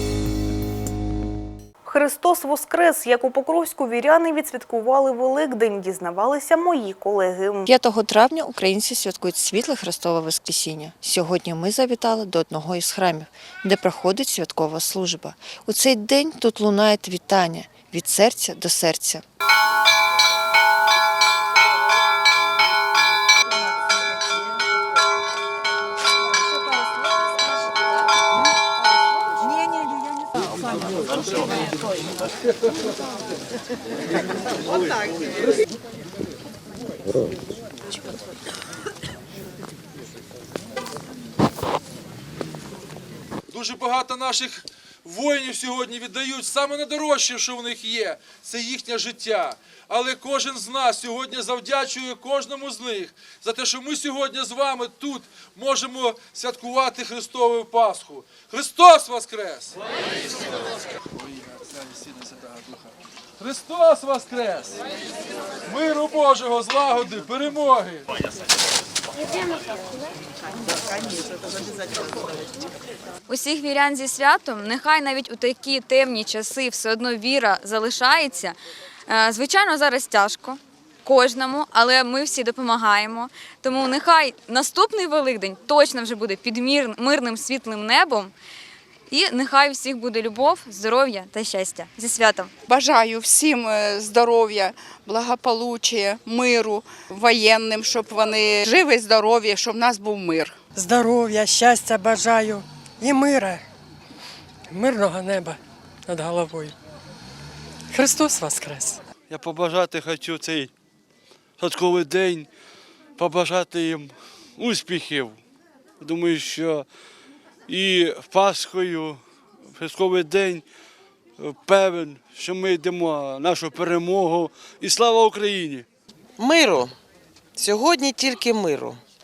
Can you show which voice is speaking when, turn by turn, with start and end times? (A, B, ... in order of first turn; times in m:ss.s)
0:01.8-0:07.6 A
0:07.6-0:19.2 B
0:43.5-0:59.8 C
1:01.2-1:04.7 C
1:05.7-1:08.0 C
1:13.3-1:18.6 D
1:19.1-1:28.3 D
1:29.1-1:32.5 D
1:32.7-1:40.6 E
1:40.8-1:43.6 F
1:44.7-1:46.7 F
1:47.9-1:49.0 F
1:49.3-1:50.7 G
1:51.6-1:52.5 G
1:53.2-1:55.4 G
1:56.0-1:56.9 G
1:57.7-2:00.6 G
2:01.4-2:05.8 G
2:06.4-2:06.9 H
2:07.6-2:09.0 H